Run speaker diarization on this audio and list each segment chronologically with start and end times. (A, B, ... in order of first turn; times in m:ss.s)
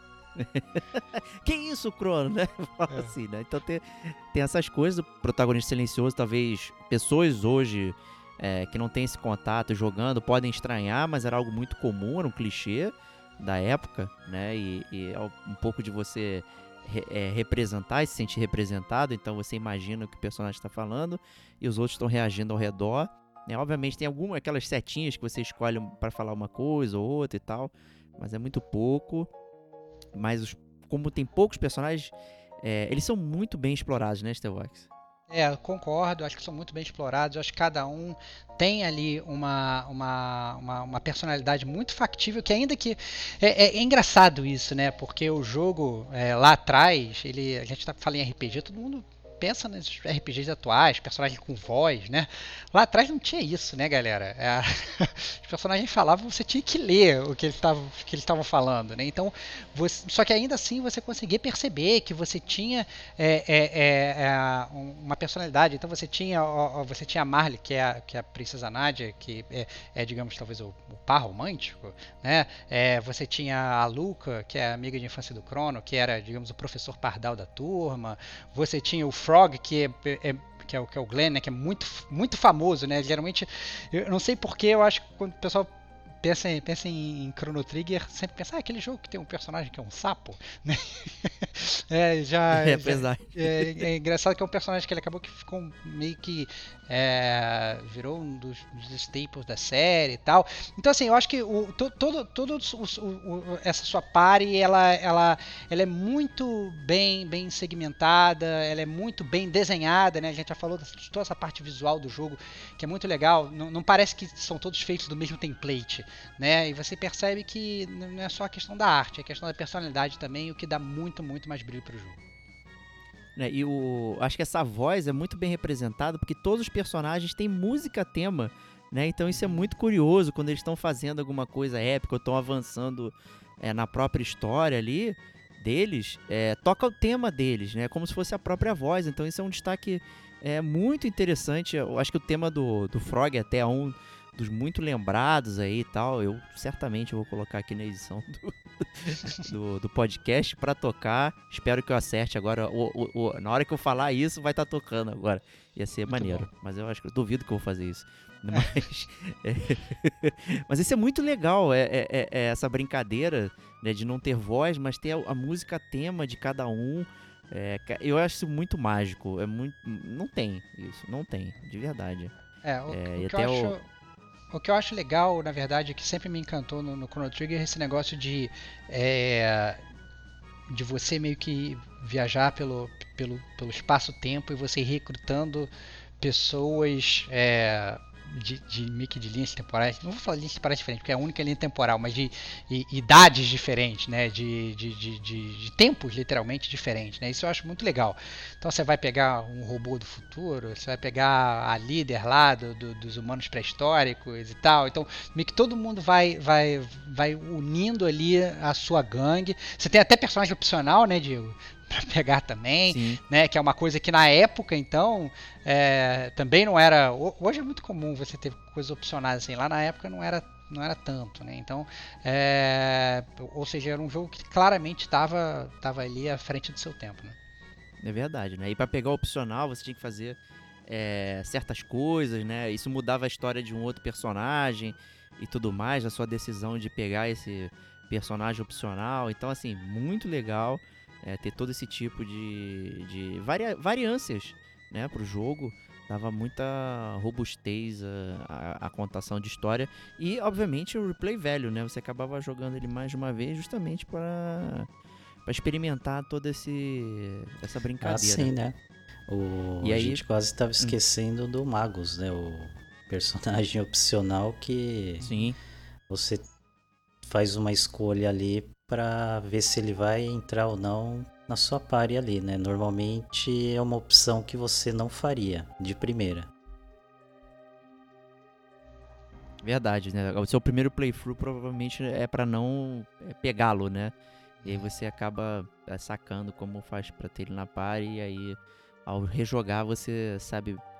0:00.4-0:29.3 A
0:30.1-0:34.9 A
0:35.3-2:02.2 B
1:32.5-1:33.8 A
2:03.4-2:52.3 A
2:09.3-2:09.7 B
2:36.1-2:36.5 B
2:52.6-2:53.8 B
2:52.9-2:53.7 A
2:54.5-2:59.8 B
3:00.7-3:47.4 B
3:32.9-3:33.2 A
3:48.0-4:14.9 A
4:15.4-4:18.5 A
4:18.0-4:25.2 C
4:19.8-4:20.2 A
4:25.2-4:25.5 B
4:25.2-4:25.6 A
4:26.1-4:26.4 C
4:27.2-4:36.5 C
4:39.6-4:44.1 A
4:44.6-4:44.9 B
4:44.6-4:50.8 A